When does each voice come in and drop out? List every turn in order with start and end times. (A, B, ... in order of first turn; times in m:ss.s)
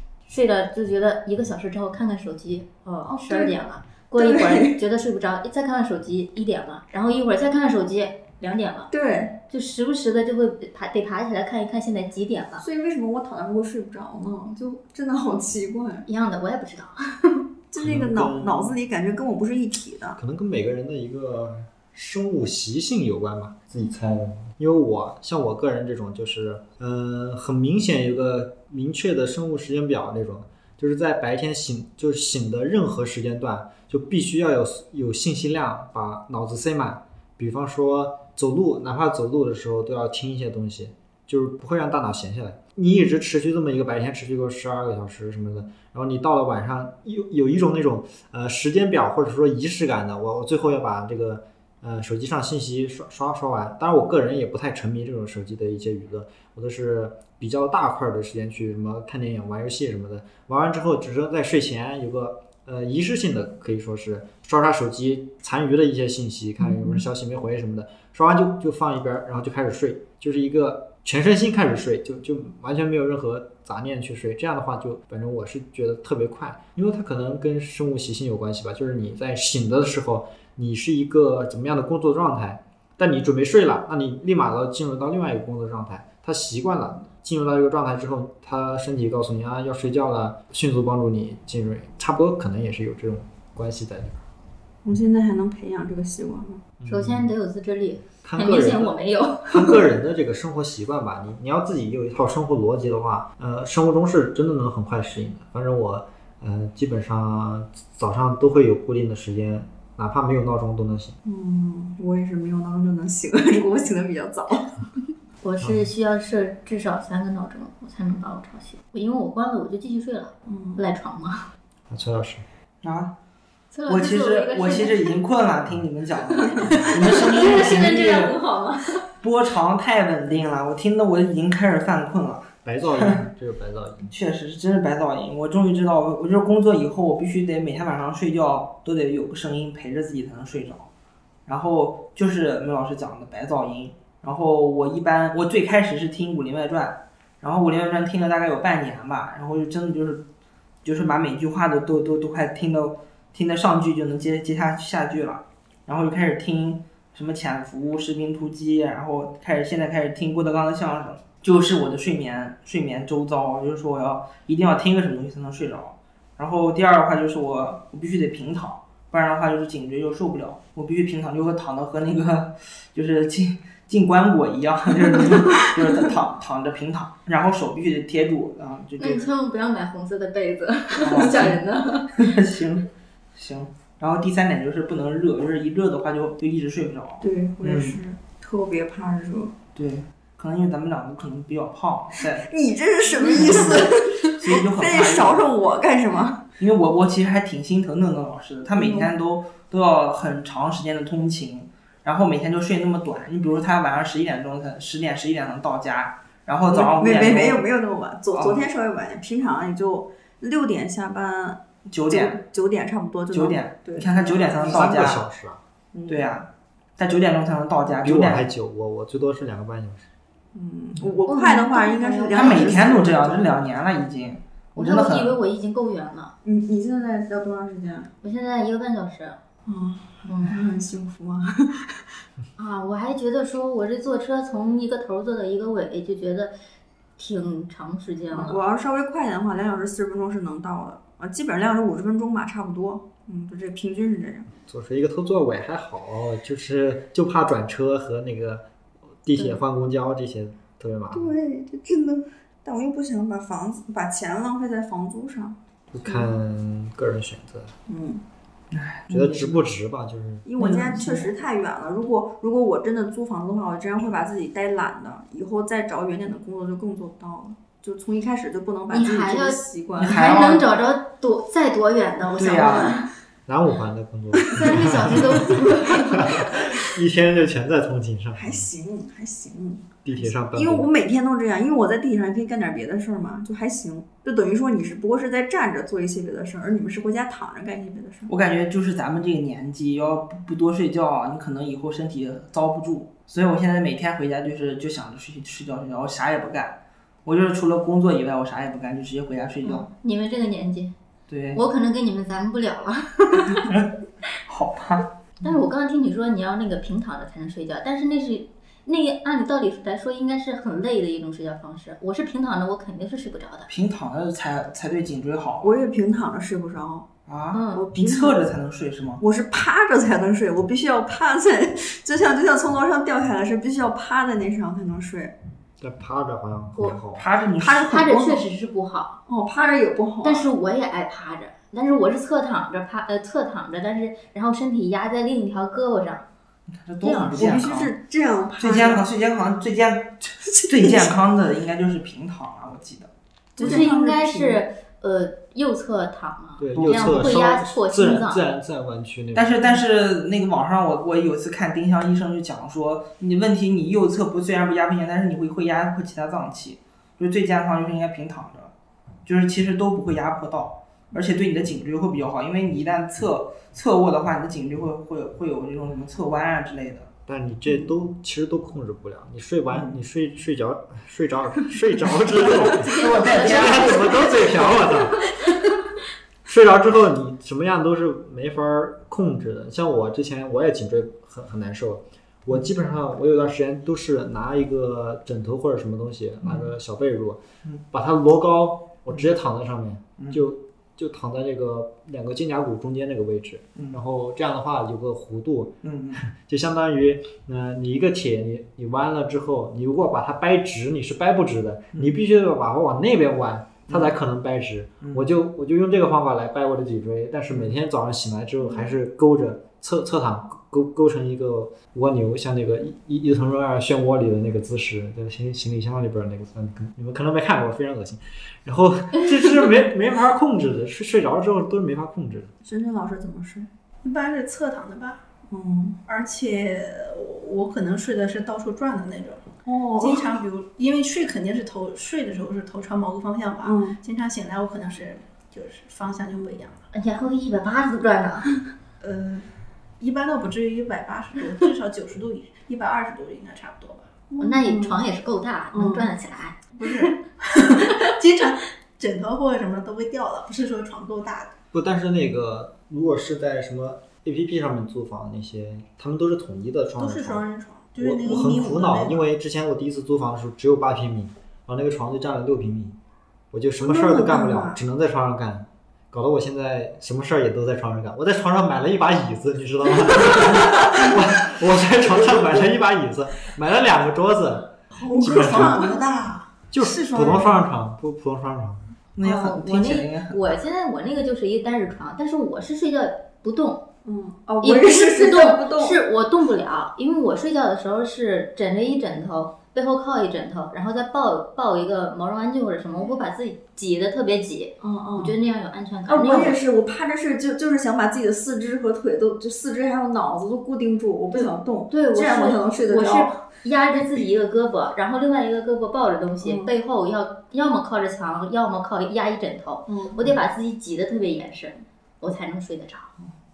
0:00.3-0:08.9 A
0:03.0-0:03.6 B
0:04.2-0:04.8 B
0:08.9-0:09.4 B
0:09.5-0:12.6 A
0:12.6-0:16.1 B
0:16.1-0:17.4 A
0:17.7-0:20.2 B
0:17.8-0:18.8 C
0:20.2-1:34.2 C
1:06.7-1:07.0 B
1:34.8-1:36.6 B
1:36.8-1:37.3 C
1:36.9-1:39.8 A
1:38.2-1:39.0 C
1:39.5-1:51.2 C
1:51.2-1:54.8 B
1:55.4-2:01.5 A
1:55.6-1:55.9 C
2:00.5-2:00.8 B
2:01.9-2:02.4 C
2:02.8-2:03.1 D
2:03.7-2:05.2 A
2:03.9-2:08.4 D
2:06.6-2:06.9 B
2:06.7-2:09.1 A
2:09.2-2:13.2 D
2:12.6-2:14.1 C
2:14.1-2:20.9 D
2:21.5-2:30.3 D
2:30.8-2:59.3 D
2:59.0-3:02.3 A
3:01.0-3:01.6 D
3:02.2-3:08.0 D
3:07.2-3:09.6 B
3:09.8-3:12.5 D
3:12.2-3:16.4 B
3:13.1-3:15.5 D
3:16.6-3:27.6 D
3:18.8-3:19.1 B
3:26.7-3:34.9 B
3:28.3-3:28.7 D
3:31.9-3:32.4 D
3:33.3-3:35.2 D
3:34.6-3:35.6 C
3:35.9-3:36.4 B
3:36.1-3:38.5 D
3:38.0-3:40.1 C
3:40.5-3:43.5 B
3:41.3-3:43.0 A
3:42.3-3:45.4 D
3:44.8-3:46.3 A
3:46.4-3:48.1 B
3:48.2-3:49.4 A
3:49.7-3:52.1 B
3:50.3-3:50.6 A
3:52.6-3:56.6 A
3:57.2-3:58.6 A
3:58.3-4:04.5 B
4:04.6-4:08.7 C
4:09.2-4:11.3 C
4:11.1-4:16.3 B
4:15.9-4:17.7 C
4:17.9-4:18.2 B
4:18.7-4:19.6 D
4:19.1-4:20.4 C
4:20.4-4:30.4 B
4:20.6-4:21.3 D
4:28.9-4:33.1 A
4:30.0-4:30.7 D
4:32.4-4:33.0 D
4:33.5-4:35.5 C
4:34.5-4:36.6 A
4:36.1-4:38.7 C
4:38.4-4:48.3 B
4:40.0-4:40.9 C
4:48.3-4:59.9 D
4:59.6-5:00.9 A
5:01.3-5:01.6 D
5:01.6-5:03.7 A
5:03.5-5:03.9 D
5:04.4-5:05.1 D
5:05.4-5:13.7 A
5:13.7-5:15.8 D
5:15.6-5:17.1 B
5:17.3-5:19.2 D
5:17.5-5:17.8 A
5:17.7-5:18.5 B
5:19.2-5:25.4 B
5:25.8-5:27.2 C
5:27.2-5:28.1 D
5:27.6-5:28.4 B
5:27.8-5:29.2 A
5:29.3-5:30.5 B
5:30.2-5:36.2 A
5:36.8-5:37.9 D
5:37.0-5:37.6 A
5:37.3-5:39.1 B
5:38.6-5:43.1 D
5:40.5-5:41.1 B
5:43.6-5:44.6 B
5:43.6-5:48.4 A
5:46.6-5:49.7 C
5:46.8-5:47.2 D
5:49.3-5:58.7 D
5:59.3-6:07.1 D
6:07.3-6:15.3 C
6:09.7-6:10.0 D
6:12.6-6:14.4 D
6:12.8-6:14.5 A
6:15.2-6:15.5 A
6:16.5-7:02.5 C
6:26.4-6:26.7 D
6:35.8-6:36.2 D
6:43.9-6:44.1 D
6:45.0-6:45.3 D
7:02.6-7:03.7 B
7:04.0-7:05.2 E
7:05.5-7:06.0 B
7:06.1-7:16.8 E
7:09.6-7:10.3 B
7:13.6-7:14.0 B
7:16.9-7:18.5 A
7:19.0-7:19.5 E
7:20.0-7:24.1 E
7:24.3-7:25.0 B
7:24.4-7:27.1 A
7:25.7-7:26.1 B
7:26.8-7:31.6 E
7:31.7-7:37.4 C
7:37.0-7:39.2 E
7:38.0-7:43.0 C
7:43.5-7:55.9 C
7:43.8-7:44.8 B
7:54.9-7:56.0 B
7:55.0-7:56.5 E
7:56.7-7:58.8 C
7:56.8-7:57.6 D
7:59.2-8:00.6 D
7:59.2-8:03.8 A
8:04.0-8:06.0 B
8:04.6-8:16.6 A
8:14.8-8:15.4 B
8:16.1-8:23.4 B
8:21.3-8:33.1 A
8:26.4-8:26.7 B
8:29.9-8:30.3 B